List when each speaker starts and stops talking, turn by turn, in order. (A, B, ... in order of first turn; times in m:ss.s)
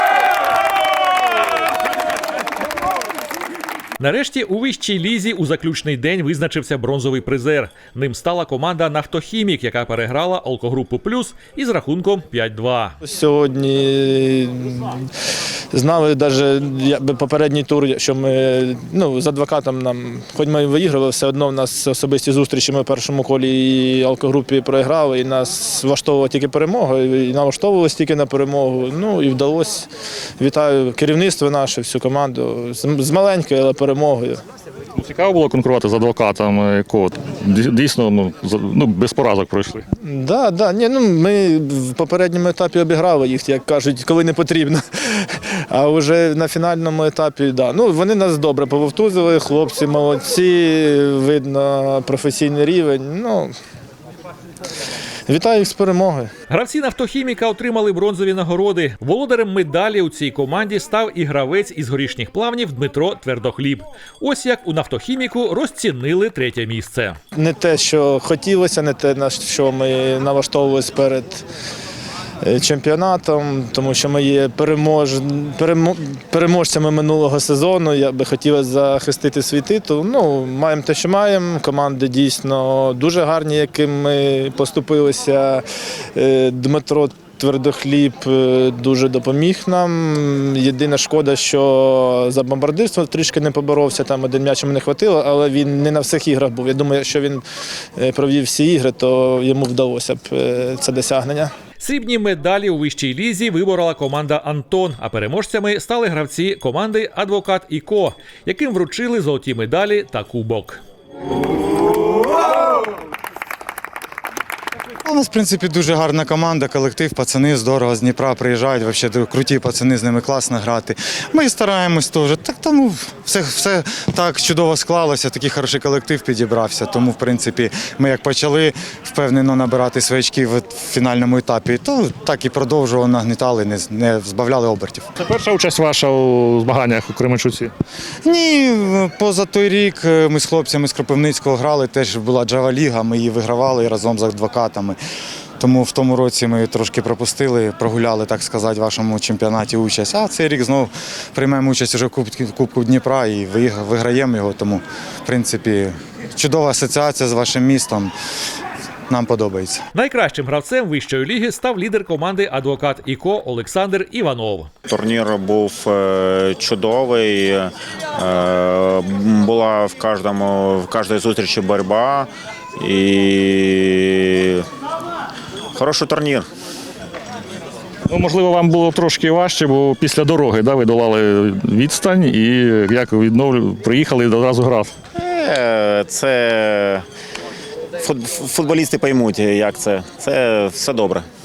0:04.0-0:13.0 A
0:13.0-0:15.1 B
0:15.7-0:34.4 B
0:35.0-0:39.8 C
0:40.0-0:53.5 B
0:55.2-0:56.3 B
0:56.5-1:07.2 A
1:07.3-1:11.4 B
1:12.4-1:37.4 B
1:38.0-1:41.5 B
1:41.8-1:50.8 A
1:55.0-2:15.0 D
2:15.2-2:17.7 C
2:18.2-2:25.0 D
2:25.6-2:38.1 D
2:39.1-2:39.8 D
2:39.9-2:44.7 A
2:44.9-2:54.7 E
2:55.7-2:56.5 E
2:58.1-3:04.9 C
3:05.1-3:07.0 E
3:08.0-3:11.2 E